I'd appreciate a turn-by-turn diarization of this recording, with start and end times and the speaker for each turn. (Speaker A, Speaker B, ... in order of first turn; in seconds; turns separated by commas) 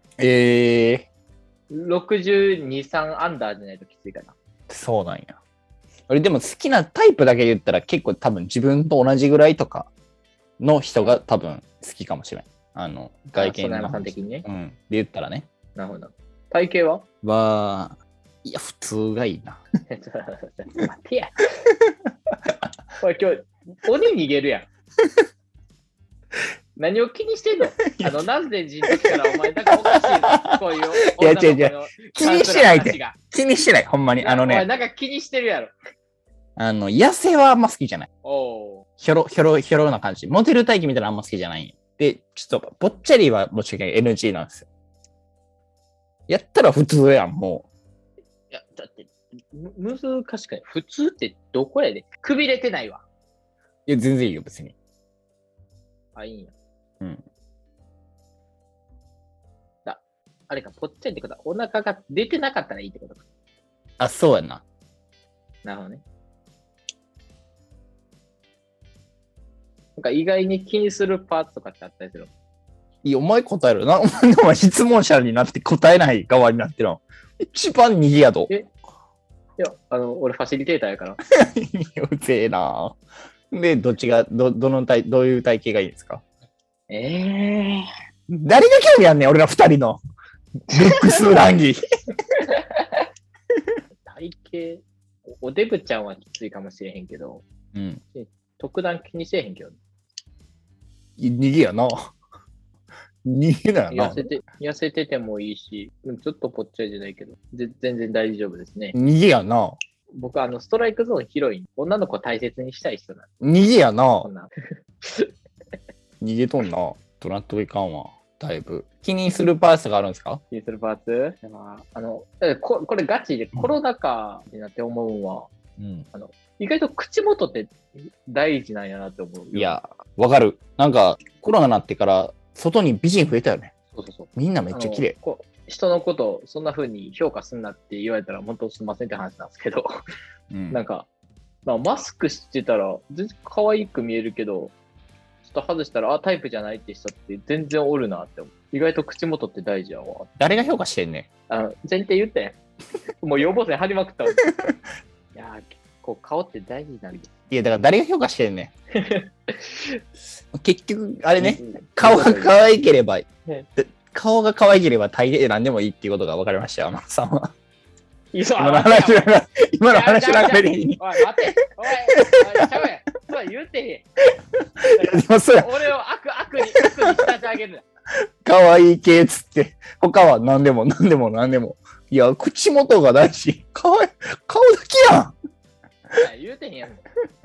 Speaker A: 0.2-1.1, Speaker B: 1.7-4.3, Speaker A: 4.7-5.4, Speaker A: 6.1-9.9, Speaker A: 10.6-15.5, Speaker B: 13.4-14.4, Speaker B: 15.8-17.0, Speaker A: 17.2-19.6, Speaker B: 19.9-21.4, Speaker B: 23.0-24.7, Speaker B: 26.8-33.2, Speaker A: 27.8-28.2, Speaker A: 28.9-29.1, Speaker A: 29.7-30.6, Speaker A: 31.1-34.7, Speaker B: 34.2-35.7, Speaker A: 36.6-38.1, Speaker B: 38.2-38.8, Speaker A: 39.0-44.7, Speaker A: 46.3-47.7, Speaker B: 48.5-53.0, Speaker A: 53.9-54.7, Speaker B: 56.1-56.5, Speaker B: 59.9-63.2, Speaker A: 64.0-64.6, Speaker B: 65.6-66.0, Speaker B: 70.0-72.3, Speaker A: 73.0-78.5, Speaker B: 79.6-81.2, Speaker A: 81.3-83.0, Speaker A: 83.5-86.2, Speaker B: 86.9-87.9, Speaker A: 88.3-90.0, Speaker A: 90.7-91.8, Speaker B: 90.7-91.2, Speaker B: 92.5-93.0, Speaker B: 94.0-94.8, Speaker B: 95.4-97.4, Speaker A: 97.7-98.0, Speaker B: 98.1-99.8, Speaker A: 101.2-102.1, Speaker A: 103.2-104.3, Speaker B: 103.9-109.0, Speaker A: 108.9-109.8, Speaker B: 110.2-113.3, Speaker A: 113.4-114.3, Speaker B: 114.2-114.5, Speaker B: 115.0-115.3, Speaker A: 116.2-120.4, Speaker B: 120.5-125.5, Speaker A: 125.8-126.1, Speaker B: 126.1-129.8, Speaker A: 129.5-133.7, Speaker B: 133.9-139.9, Speaker A: 134.3-135.2, Speaker A: 140.5-140.8, Speaker B: 140.7-141.1, Speaker B: 141.7-144.7, Speaker B: 145.4-150.3, Speaker A: 150.4-151.3, Speaker B: 151.5-152.6, Speaker B: 153.2-154.4, Speaker B: 155.3-157.3, Speaker A: 157.5-158.7, Speaker B: 158.9-160.0, Speaker A: 160.6-167.5, Speaker B: 161.4-162.6, Speaker B: 168.3-169.3, Speaker A: 168.6-171.0, Speaker B: 169.9-174.1, Speaker A: 172.1-172.7, Speaker A: 174.6-175.7, Speaker B: 174.9-177.8, Speaker A: 176.8-177.2, Speaker A: 178.4-185.3, Speaker B: 186.2-187.1